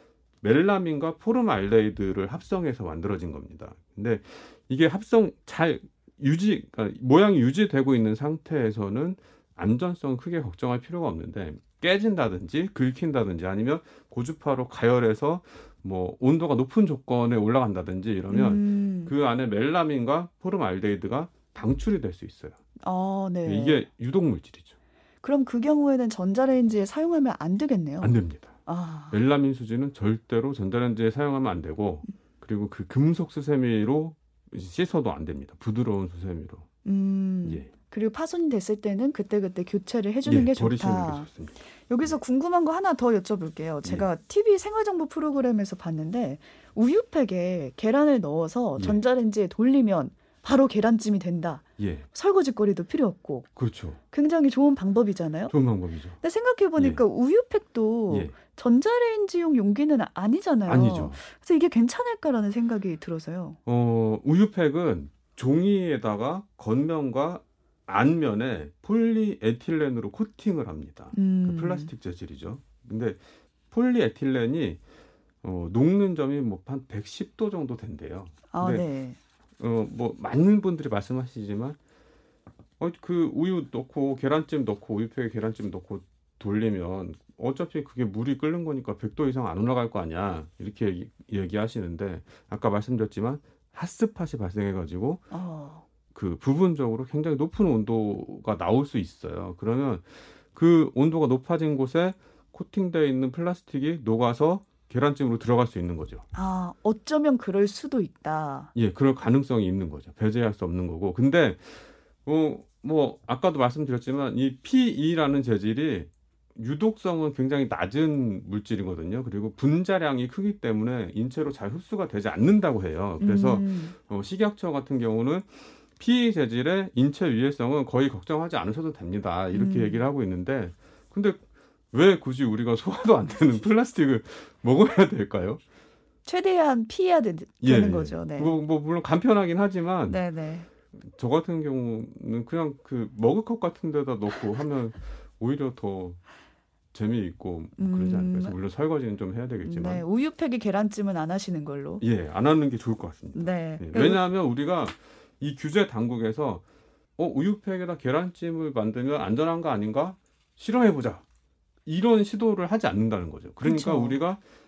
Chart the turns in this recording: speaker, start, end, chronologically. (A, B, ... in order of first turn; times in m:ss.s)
0:00.4-0:22.6 A
0:18.3-0:19.1 B
0:22.8-0:23.8 B
0:23.4-0:24.7 A
0:25.2-0:28.1 B
0:28.0-0:28.6 A
0:28.6-0:29.2 B
0:29.1-0:36.6 A
0:36.8-0:41.3 B
0:37.4-0:37.7 A
0:40.2-0:42.1 A
0:41.9-0:53.5 B
0:51.8-0:52.1 A
0:53.6-0:54.0 A
0:54.1-0:55.5 B
0:55.5-0:56.2 A
0:56.2-1:03.6 B
0:56.8-0:57.0 A
0:58.1-0:58.4 A
1:00.6-1:01.2 A
1:03.6-1:13.2 A
1:11.1-1:11.9 B
1:13.7-1:14.8 A
1:15.4-1:18.8 A
1:18.5-1:19.2 B
1:19.6-1:21.8 A
1:22.8-1:35.2 A
1:35.3-1:35.8 B
1:36.1-1:46.2 A
1:46.3-1:48.7 B
1:48.7-2:15.6 A
2:03.2-2:04.0 B
2:09.5-2:10.0 B
2:16.2-2:18.5 B
2:17.6-2:20.2 A
2:20.1-2:20.7 B
2:20.9-2:26.2 A
2:26.9-2:30.0 A
2:27.8-2:28.6 B
2:29.6-2:32.0 B
2:32.0-2:36.6 A
2:33.3-2:34.2 B
2:37.2-2:41.2 A
2:41.8-2:44.4 A
2:43.6-2:44.2 B